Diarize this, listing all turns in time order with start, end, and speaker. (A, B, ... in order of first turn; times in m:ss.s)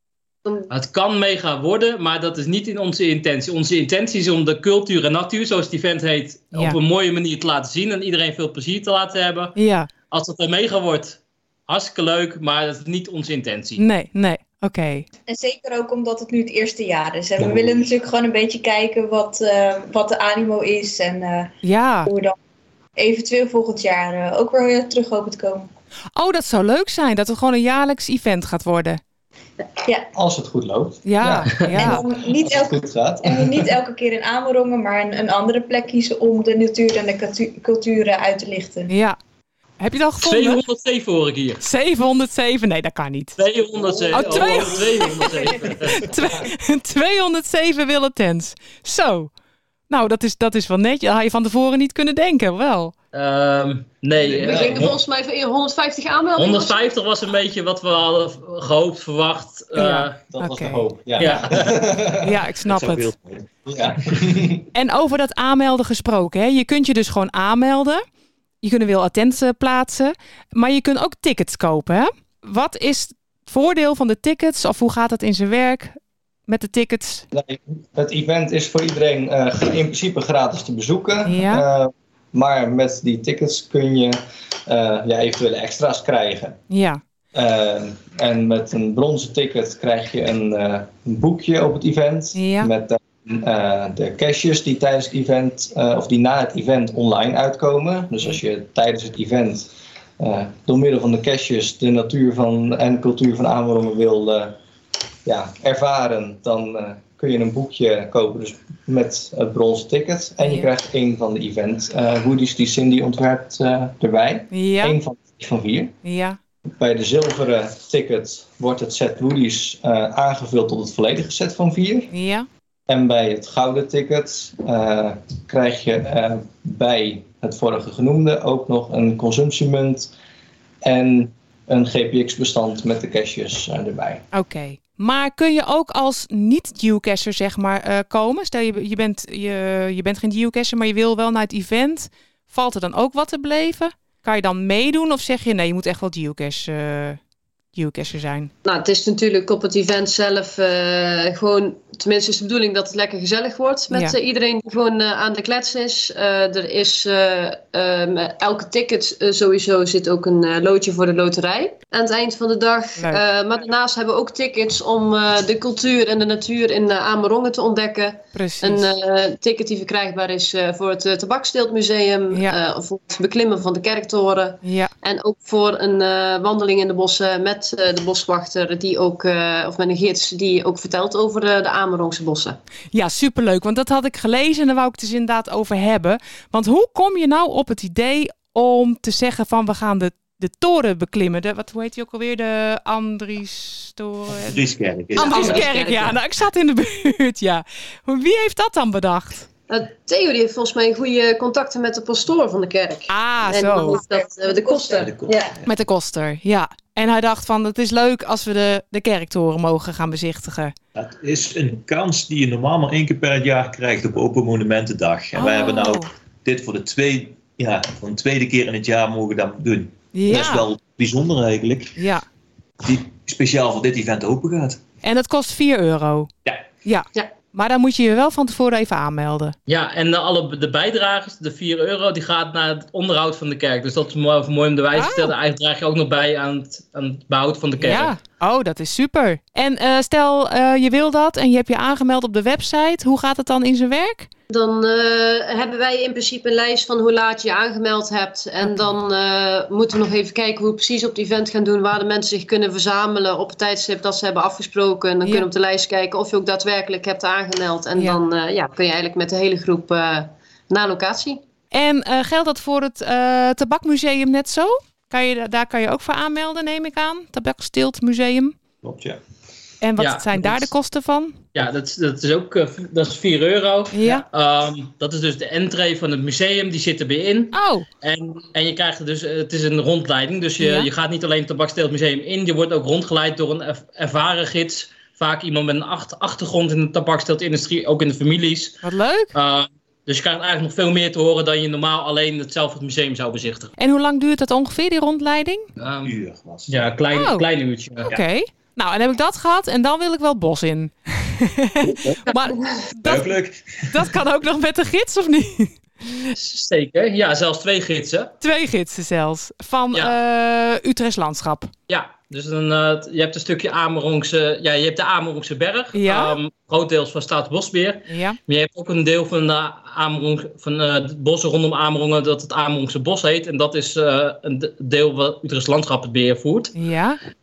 0:00.7-0:09.6 A
0:09.6-0:09.9 B
0:10.1-0:13.8 A
0:13.8-0:15.1 B
0:15.3-0:22.4 C
0:17.4-0:17.8 D
0:21.6-0:22.1 B
0:23.0-0:25.7 C
0:26.2-0:29.0 B
0:30.1-0:33.7 E
0:31.1-0:32.0 B
0:31.7-0:38.9 C
0:38.9-0:39.2 B
0:39.8-0:40.6 B
0:40.2-0:41.6 A
0:41.6-0:43.4 B
0:43.4-0:46.1 A
0:44.1-0:49.3 B
0:49.9-0:52.9 B
0:53.1-0:55.0 A
0:54.4-0:57.0 F
0:54.5-0:54.8 D
0:56.4-1:00.2 A
0:59.8-1:00.9 B
1:00.3-1:02.4 E
1:01.2-1:01.8 A
1:02.2-1:03.1 B
1:02.6-1:03.5 D
1:03.7-1:04.6 E
1:04.7-1:08.0 B
1:08.6-1:16.0 B
1:16.5-1:17.2 B
1:17.3-1:26.6 E
1:21.3-1:21.6 B
1:26.7-1:27.0 B
1:27.3-1:44.6 E
1:32.4-1:32.7 B
1:45.2-1:56.0 E
1:50.4-1:50.7 B
1:54.5-1:55.0 B
1:56.0-1:56.4 B
1:56.8-2:02.1 E
2:02.1-2:02.5 B
2:02.9-2:10.1 E
2:10.8-2:14.2 E
2:14.3-2:27.2 B
2:27.8-2:28.5 B
2:28.6-3:02.6 F
2:48.4-2:48.9 B
2:54.6-2:54.9 B
3:02.9-3:14.6 B
3:14.4-3:16.1 D
3:15.2-3:19.5 B
3:15.2-3:16.1 F
3:19.7-3:25.4 F
3:23.1-3:24.0 B
3:23.9-3:25.5 C
3:25.0-3:25.5 D
3:25.6-3:30.8 B
3:31.0-3:42.0 D
3:35.4-3:36.1 B
3:40.1-3:40.7 B
3:42.0-3:42.2 B
3:42.8-3:44.8 D
3:45.0-3:46.3 B
3:46.8-3:49.5 B
3:49.7-3:58.1 A
3:55.0-3:55.3 B
3:57.8-4:04.3 B
4:04.5-4:21.4 F
4:21.7-4:28.6 B
4:28.8-4:29.2 D
4:29.8-4:31.4 B
4:30.0-4:30.7 A
4:31.6-4:48.8 A
4:33.9-4:34.2 B
4:37.5-4:37.8 B
4:40.6-4:40.9 B
4:48.8-4:49.3 B
4:49.3-4:53.7 A
4:53.8-4:55.7 B
4:55.8-4:56.2 A
4:56.0-4:56.9 D
4:56.7-4:58.2 A
4:57.1-4:57.4 B
4:58.1-5:03.4 B
5:01.8-5:02.3 D
5:03.0-5:04.1 D
5:03.9-5:06.3 B
5:06.3-5:08.3 A
5:08.4-5:11.7 B
5:11.9-5:26.8 A
5:15.9-5:16.4 B
5:18.1-5:18.4 B
5:26.8-5:27.2 B